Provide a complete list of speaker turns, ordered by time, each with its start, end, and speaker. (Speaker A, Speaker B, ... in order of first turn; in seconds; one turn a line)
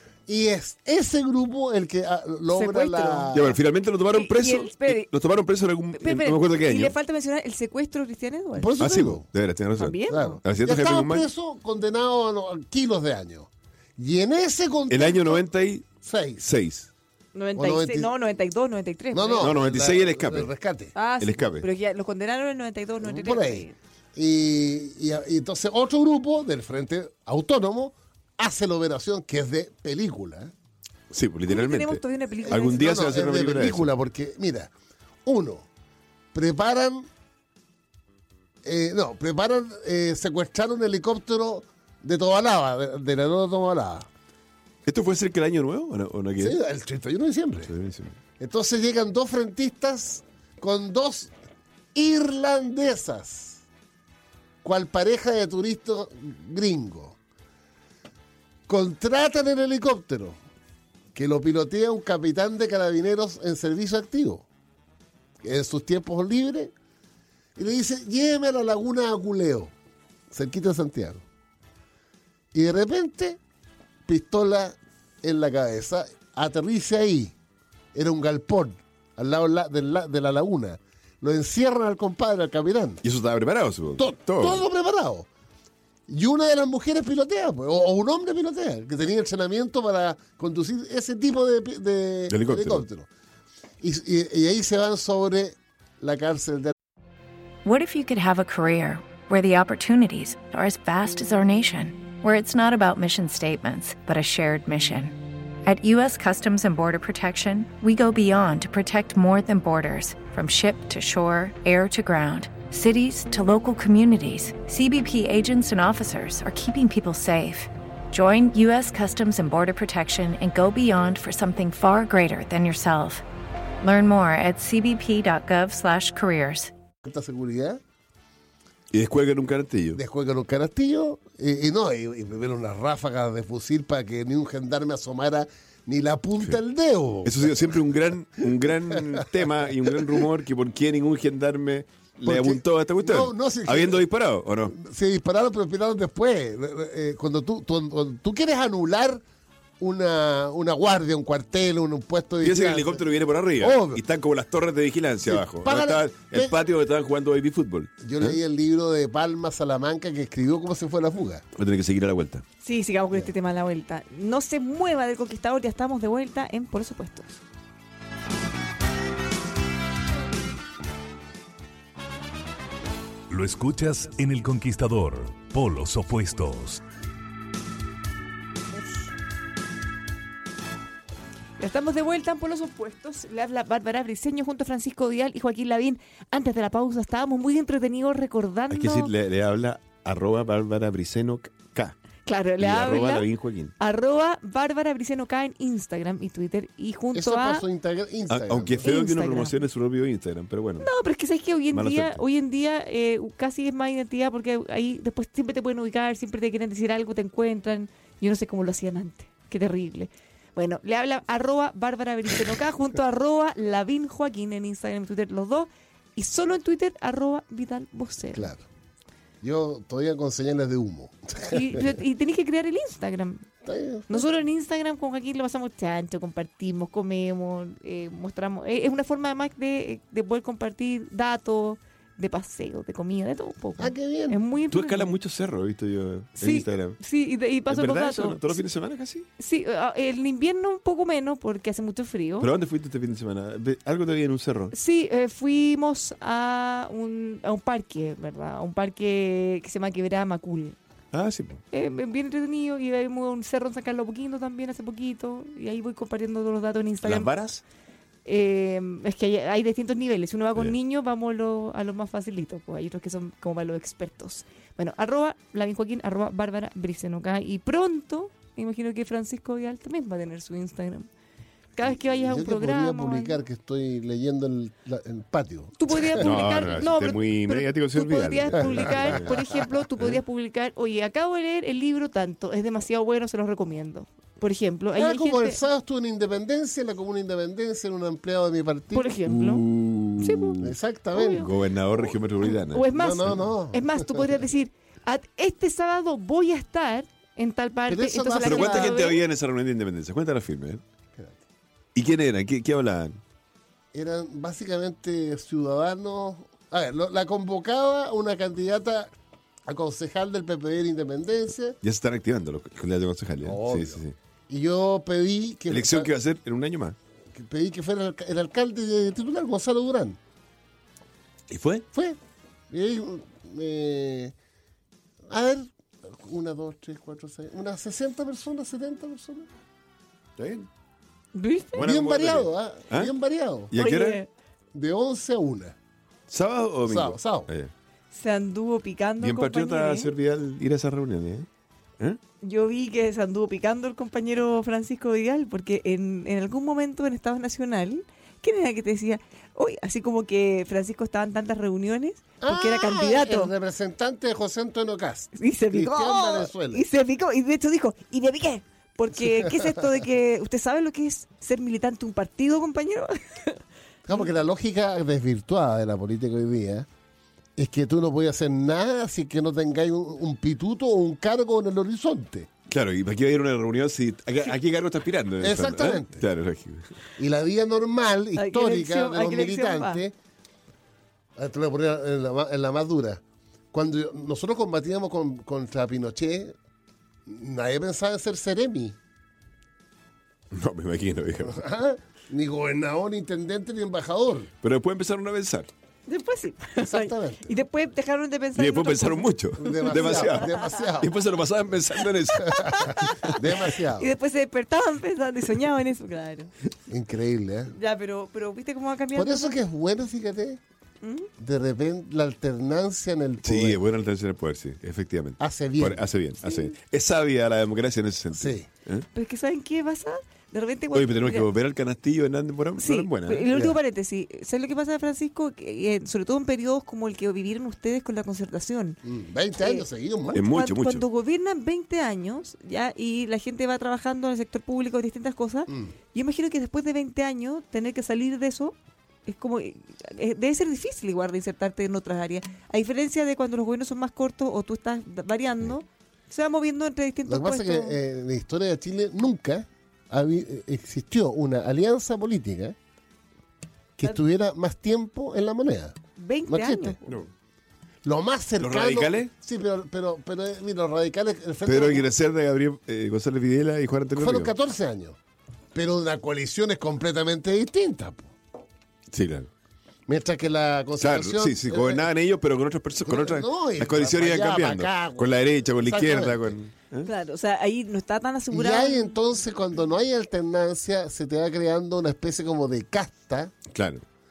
Speaker A: 0.3-3.6
Speaker B: 2.5-3.4
Speaker C: 3.3-6.9
Speaker B: 4.1-5.1
Speaker B: 6.0-8.7
Speaker A: 8.6-9.2
Speaker C: 8.8-11.3
Speaker B: 9.8-10.4
Speaker A: 10.1-15.4
Speaker C: 14.9-15.9
Speaker A: 16.0-16.4
Speaker C: 16.4-16.9
Speaker B: 17.3-19.5
Speaker A: 17.6-18.1
Speaker A: 19.1-20.9
Speaker C: 19.4-20.5
Speaker B: 20.9-23.8
Speaker C: 21.2-21.6
Speaker A: 23.0-30.5
Speaker C: 31.1-33.9
Speaker B: 31.5-32.9
Speaker A: 32.5-34.7
Speaker A: 35.2-35.7
Speaker A: 36.3-37.1
Speaker A: 38.6-44.1
Speaker C: 44.9-46.6
Speaker A: 46.4-47.7
Speaker C: 47.7-48.1
Speaker A: 48.4-51.3
Speaker A: 51.9-53.6
Speaker A: 54.6-57.2
Speaker A: 58.7-60.4
Speaker A: 61.1-64.5
Speaker A: 65.4-66.7
Speaker A: 67.5-69.7
Speaker A: 70.3-71.2
Speaker A: 72.5-73.4
Speaker A: 74.0-77.3
Speaker A: 77.9-83.0
Speaker C: 83.0-84.6
Speaker A: 84.0-85.3
Speaker A: 86.1-93.1
Speaker C: 92.3-92.8
Speaker A: 93.8-96.7
Speaker D: 97.6-123.2
Speaker D: 123.8-126.7
Speaker A: 127.0-127.8
Speaker C: 128.9-130.0
Speaker A: 129.9-137.8
Speaker C: 137.2-144.7
Speaker A: 139.0-139.2
Speaker A: 139.8-140.2
Speaker A: 142.2-144.0
Speaker A: 144.7-149.2
Speaker A: 149.8-153.0
Speaker C: 152.4-158.4
Speaker A: 153.6-154.0
Speaker A: 155.2-156.5
Speaker A: 158.0-161.4
Speaker C: 161.5-162.4
Speaker B: 162.6-167.4
Speaker E: 173.3-176.8
Speaker B: 181.6-189.1
Speaker C: 188.7-191.9
Speaker B: 192.2-193.3
Speaker C: 192.6-193.7
Speaker B: 193.8-197.6
Speaker A: 197.1-198.9
Speaker C: 198.3-200.9
Speaker B: 198.8-199.6
Speaker B: 200.8-218.5
Speaker C: 201.7-202.2
Speaker A: 218.3-218.6
Speaker A: 219.4-221.9
Speaker B: 221.5-223.4
Speaker A: 223.6-224.3
Speaker B: 224.1-235.1
Speaker A: 233.8-234.4
Speaker C: 234.7-237.0
Speaker B: 236.4-238.6
Speaker C: 237.7-239.3
Speaker B: 239.4-242.5
Speaker C: 242.4-244.7
Speaker B: 244.7-250.8
Speaker C: 251.1-251.6
Speaker B: 251.7-257.3
Speaker C: 257.0-257.6
Speaker B: 258.2-271.1
Speaker B: 271.8-273.4
Speaker A: 271.8-276.7
Speaker B: 275.8-285.6
Speaker C: 276.2-279.3
Speaker A: 278.6-279.5
Speaker A: 284.9-289.1
Speaker B: 288.9-289.6
Speaker C: 289.2-290.7
Speaker B: 290.2-290.6
Speaker A: 290.6-291.5
Speaker B: 291.1-291.5
Speaker C: 291.4-293.4
Speaker B: 292.4-299.2
Speaker A: 292.9-294.4
Speaker A: 297.9-299.0
Speaker C: 298.4-300.8
Speaker A: 301.1-301.4
Speaker C: 301.9-303.2
Speaker A: 303.9-309.1
Speaker A: 309.6-311.8
Speaker C: 311.8-314.1
Speaker A: 313.4-316.1
Speaker C: 315.7-316.9
Speaker A: 317.3-320.2
Speaker C: 321.5-321.9
Speaker A: 321.9-322.2
Speaker A: 322.7-324.3
Speaker A: 325.3-329.5
Speaker C: 330.4-330.7
Speaker B: 331.3-331.8
Speaker C: 331.7-333.1
Speaker A: 331.8-333.7
Speaker C: 333.7-334.2
Speaker B: 333.8-334.3
Speaker A: 334.7-335.8
Speaker C: 336.3-337.7
Speaker A: 336.9-337.5
Speaker B: 338.1-340.1
Speaker C: 339.2-341.5
Speaker B: 342.4-353.5
Speaker A: 352.4-356.8
Speaker B: 355.4-363.6
Speaker A: 359.3-359.8
Speaker A: 364.1-366.9
Speaker A: 367.6-372.5
Speaker C: 372.7-376.9
Speaker A: 375.4-376.2
Speaker A: 377.2-380.1
Speaker B: 378.4-380.0
Speaker A: 381.4-386.5
Speaker A: 387.2-389.0
Speaker C: 390.5-391.6
Speaker A: 391.4-394.5
Speaker C: 394.6-395.7
Speaker B: 396.1-400.8
Speaker A: 396.8-397.5
Speaker C: 398.6-402.8
Speaker A: 399.6-401.1
Speaker B: 402.3-403.4
Speaker A: 402.4-404.1
Speaker B: 403.9-406.5
Speaker A: 406.9-407.7
Speaker B: 407.7-409.6
Speaker A: 409.1-410.6
Speaker B: 411.0-411.3
Speaker A: 411.4-413.8
Speaker C: 413.4-419.1
Speaker A: 415.4-416.1
Speaker A: 418.3-418.7
Speaker B: 419.1-421.5
Speaker C: 420.9-423.5
Speaker B: 422.8-429.0
Speaker A: 423.5-423.8
Speaker A: 429.0-430.4
Speaker B: 429.6-438.7
Speaker C: 430.3-431.0
Speaker A: 435.7-435.9
Speaker B: 439.2-448.0
Speaker A: 447.3-452.8
Speaker A: 454.0-457.0
Speaker B: 456.2-457.0
Speaker A: 458.0-462.1
Speaker C: 458.6-459.3
Speaker C: 461.6-464.5
Speaker A: 464.1-465.2
Speaker A: 465.7-468.3
Speaker C: 469.1-469.5
Speaker A: 470.1-472.1
Speaker C: 471.0-477.1
Speaker A: 473.0-476.6
Speaker B: 477.0-479.1
Speaker A: 478.5-483.5
Speaker C: 483.7-484.0